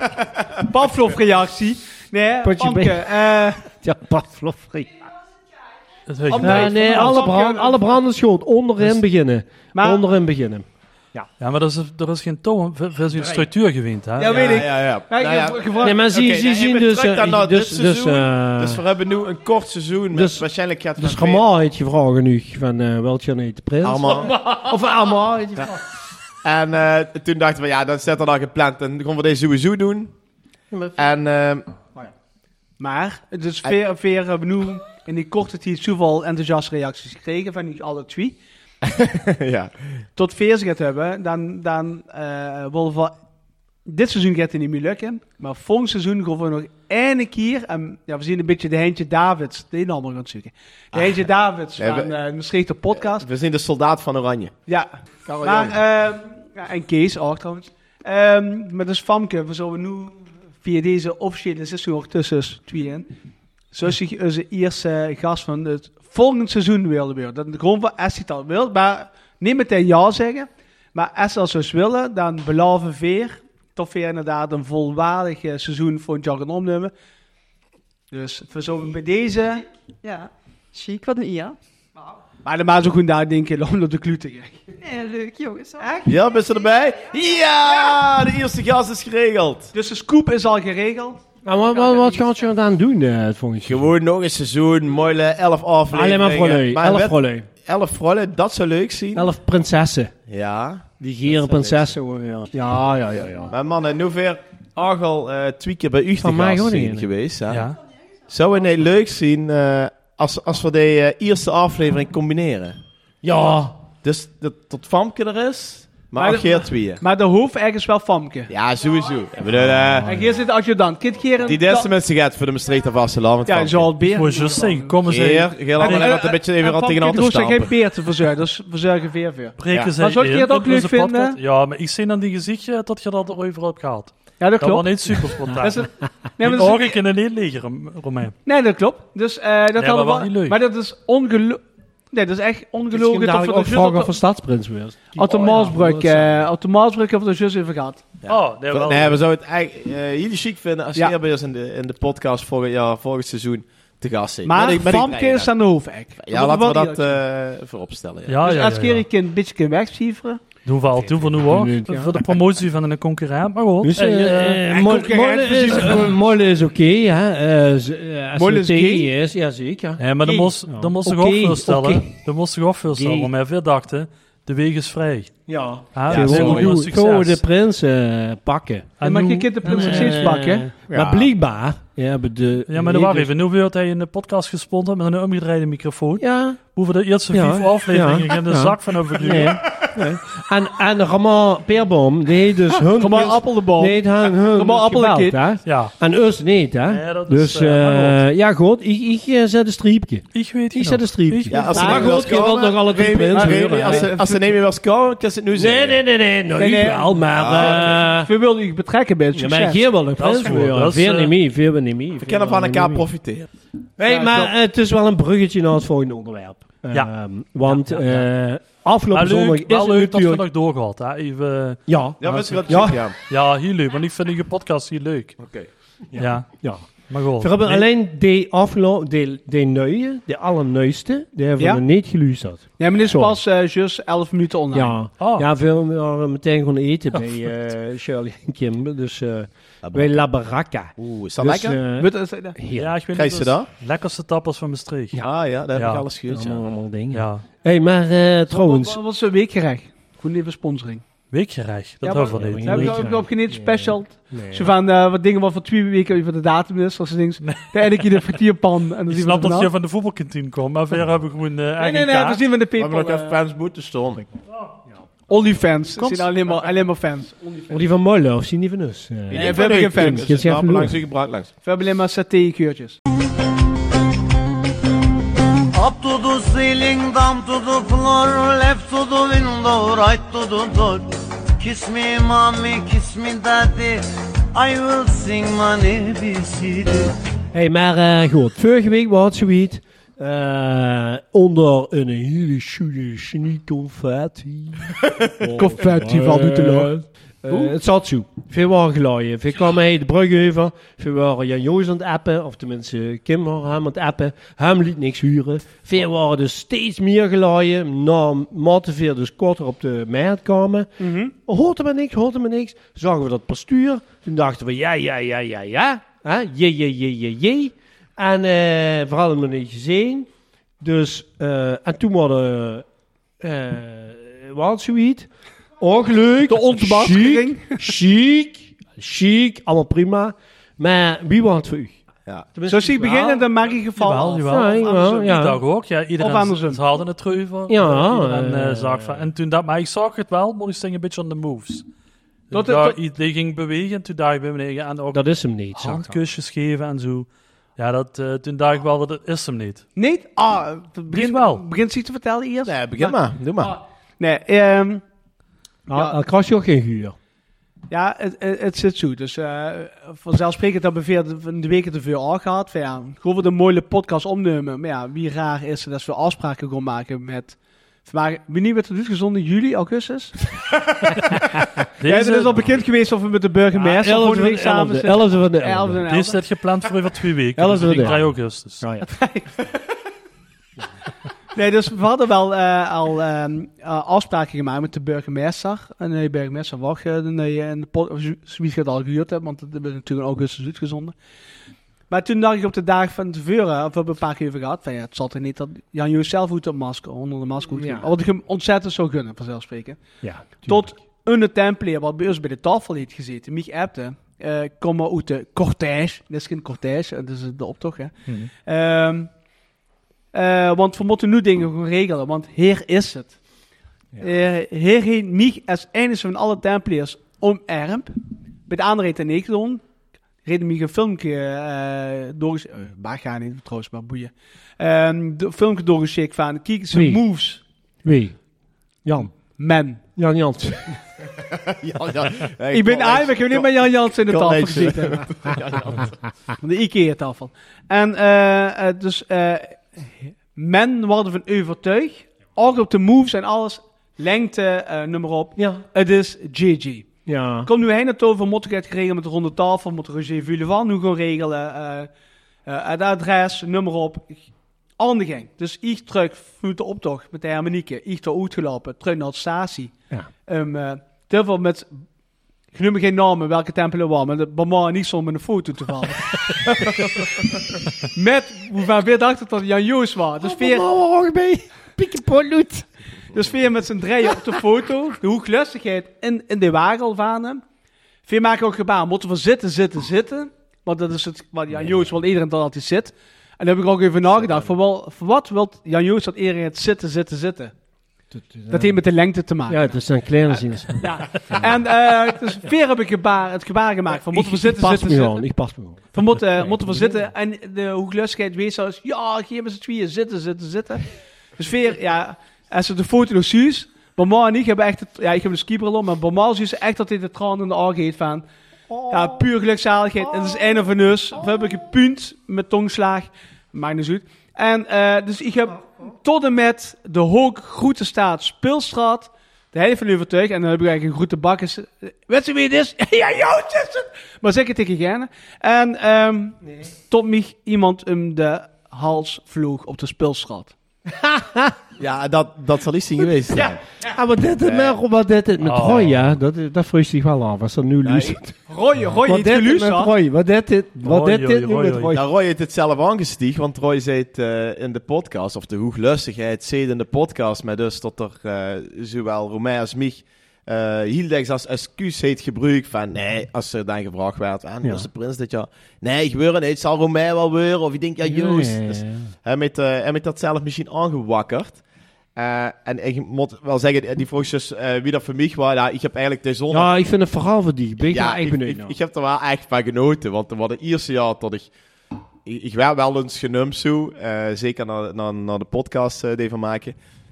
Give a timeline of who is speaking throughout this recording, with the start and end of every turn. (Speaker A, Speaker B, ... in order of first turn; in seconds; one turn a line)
Speaker A: 0.2-3.6
Speaker B: 2.4-5.1
Speaker C: 6.1-7.2
Speaker A: 6.3-7.8
Speaker B: 6.4-11.3
Speaker A: 9.8-10.0
Speaker C: 11.4-14.6
Speaker A: 14.2-16.0
Speaker D: 14.2-21.4
Speaker B: 15.8-18.8
Speaker B: 20.1-20.4
Speaker B: 21.0-25.8
Speaker D: 23.8-24.3
Speaker D: 26.4-30.1
Speaker B: 30.7-31.1
Speaker D: 31.0-31.7
Speaker A: 32.8-38.4
Speaker D: 38.8-39.8
Speaker A: 40.2-43.1
Speaker A: 43.9-53.3
Speaker D: 50.9-51.2
Speaker D: 51.8-52.1
Speaker D: 53.0-54.6
Speaker A: 54.7-63.1
Speaker D: 55.3-55.8
Speaker A: 63.7-76.9
Speaker A: 78.1-79.6
Speaker E: 80.0-82.0
Speaker A: 82.5-84.6
Speaker E: 84.8-86.2
Speaker D: 86.0-89.7
Speaker A: 89.7-91.2
Speaker B: 91.4-93.9
Speaker D: 93.6-99.3
Speaker B: 95.9-97.5
Speaker B: 99.1-100.1
Speaker D: 100.3-101.9
Speaker B: 101.0-103.5
Speaker D: 103.5-107.7
Speaker B: 106.2-107.1
Speaker C: 107.5-107.8
Speaker D: 108.3-112.8
Speaker B: 113.2-113.8
Speaker D: 114.0-117.0
Speaker A: 116.2-118.5
Speaker D: 118.5-120.2
Speaker A: 120.0-121.9
Speaker D: 121.4-123.9
Speaker A: 123.5-125.0
Speaker C: 124.1-126.1
Speaker D: 125.0-127.8
Speaker A: 125.8-131.4
Speaker C: 129.6-135.9
Speaker A: 134.4-135.0
Speaker A: 135.6-137.0
Speaker C: 136.4-138.3
Speaker A: 138.4-144.2
Speaker C: 139.8-140.6
Speaker B: 142.9-146.4
Speaker A: 145.2-148.0
Speaker D: 148.2-155.5
Speaker C: 148.3-149.2
Speaker A: 154.4-157.2
Speaker D: 156.2-158.4
Speaker C: 158.3-159.1
Speaker A: 158.4-160.4
Speaker C: 160.7-164.6
Speaker B: 161.3-162.2
Speaker B: 163.8-170.0
Speaker A: 164.6-166.1
Speaker A: 168.3-169.1
Speaker C: 170.0-175.3
Speaker A: 170.3-170.5
Speaker B: 170.6-172.1
Speaker B: 172.9-173.3
Speaker B: 175.5-179.0
Speaker C: 175.9-177.4
Speaker D: 176.1-176.8
Speaker C: 179.0-180.3
Speaker A: 179.0-180.7
Speaker B: 179.6-183.3
Speaker D: 180.9-181.3
Speaker C: 182.7-189.6
Speaker B: 186.2-186.6
Speaker B: 187.3-204.2
Speaker A: 192.9-195.4
Speaker C: 195.7-195.9
Speaker C: 196.9-198.2
Speaker C: 200.3-201.6
Speaker D: 201.5-206.0
Speaker A: 201.7-202.5
Speaker A: 203.3-204.3
Speaker B: 205.5-208.3
Speaker A: 206.6-209.8
Speaker D: 207.3-208.1
Speaker B: 209.3-213.1
Speaker C: 210.2-211.3
Speaker D: 212.2-213.5
Speaker B: 214.0-220.4
Speaker A: 214.1-214.5
Speaker C: 217.7-218.3
Speaker C: 219.1-225.4
Speaker B: 221.9-223.0
Speaker D: 222.2-223.2
Speaker D: 225.4-225.7
Speaker B: 226.1-226.8
Speaker C: 226.2-226.5
Speaker C: 227.1-227.9
Speaker B: 227.4-233.4
Speaker A: 232.8-235.0
Speaker B: 234.7-242.9
Speaker C: 235.2-235.5
Speaker D: 239.8-240.2
Speaker D: 241.0-241.8
Speaker A: 242.0-242.6
Speaker C: 242.7-245.2
Speaker D: 243.1-243.7
Speaker D: 245.2-246.6
Speaker C: 245.7-246.1
Speaker B: 246.3-249.0
Speaker C: 247.1-247.5
Speaker A: 248.5-251.0
Speaker C: 251.3-253.2
Speaker A: 252.0-259.7
Speaker B: 252.2-254.8
Speaker C: 257.4-258.3
Speaker C: 259.1-262.4
Speaker A: 261.8-263.4
Speaker D: 262.8-264.3
Speaker A: 265.3-267.9
Speaker B: 267.7-271.0
Speaker D: 269.3-271.5
Speaker A: 269.3-270.3
Speaker A: 271.6-273.0
Speaker F: 275.7-284.0
Speaker F: 284.5-287.1
Speaker B: 287.5-320.3
Speaker A: 295.5-296.9
Speaker A: 311.0-311.3
Speaker B: 320.8-322.9
Speaker B: 323.4-332.0
Speaker A: 326.5-327.9
Speaker B: 332.5-333.5
Speaker A: 332.7-335.4
Speaker C: 333.9-341.9
Speaker B: 334.4-335.6
Speaker A: 336.2-336.8
Speaker B: 337.7-339.3
Speaker A: 342.5-343.0
Speaker C: 342.5-345.2
Speaker B: 345.1-346.2
Speaker C: 345.8-349.9
Speaker A: 350.0-355.0
Speaker C: 351.1-351.6
Speaker D: 352.7-353.8
Speaker B: 355.9-357.2
Speaker A: 355.9-356.2
Speaker A: 357.9-370.4
Speaker C: 372.0-372.8
Speaker A: 372.0-376.4
Speaker B: 373.7-376.1
Speaker C: 376.1-378.8
Speaker B: 377.6-379.1
Speaker A: 379.1-379.5
Speaker A: 381.5-391.2
Speaker A: 392.1-409.3
Speaker B: 397.7-398.1
Speaker B: 400.2-400.9
Speaker A: 410.3-413.4
Speaker A: 414.2-418.1
Speaker A: 418.7-419.8
Speaker A: 420.4-427.6
Speaker B: 426.9-427.2
Speaker B: 428.0-428.4
Speaker B: 429.1-429.3
Speaker A: 429.6-430.0
Speaker B: 430.2-431.0
Speaker D: 431.5-436.2
Speaker A: 432.7-435.3
Speaker A: 436.6-440.0
Speaker A: 440.6-447.1
Speaker B: 445.6-445.8
Speaker B: 447.3-447.7
Speaker A: 447.7-452.1
Speaker A: 452.7-454.4
Speaker A: 455.0-459.9
Speaker A: 460.5-461.9
Speaker A: 462.7-466.4
Speaker A: 468.1-470.9
Speaker B: 470.4-472.9
Speaker A: 473.3-477.6
Speaker A: 478.3-487.7
Speaker D: 484.4-484.7
Speaker B: 488.3-489.0
Speaker A: 488.7-489.8
Speaker B: 489.7-491.8
Speaker A: 491.0-495.4
Speaker B: 494.3-497.3
Speaker A: 496.1-501.1
Speaker A: 501.6-508.4
Speaker B: 508.9-509.5
Speaker A: 509.1-530.7
Speaker B: 510.2-510.8
Speaker B: 511.4-511.6
Speaker B: 531.1-531.8
Speaker D: 532.0-533.8
Speaker B: 533.2-538.6
Speaker D: 534.6-535.0
Speaker C: 535.6-536.1
Speaker D: 538.0-538.4
Speaker A: 538.7-540.1
Speaker B: 539.2-542.3
Speaker C: 541.0-542.1
Speaker D: 542.1-561.8
Speaker B: 558.2-559.3
Speaker D: 562.4-566.9
Speaker B: 566.7-569.0
Speaker D: 568.1-571.7
Speaker D: 572.5-577.0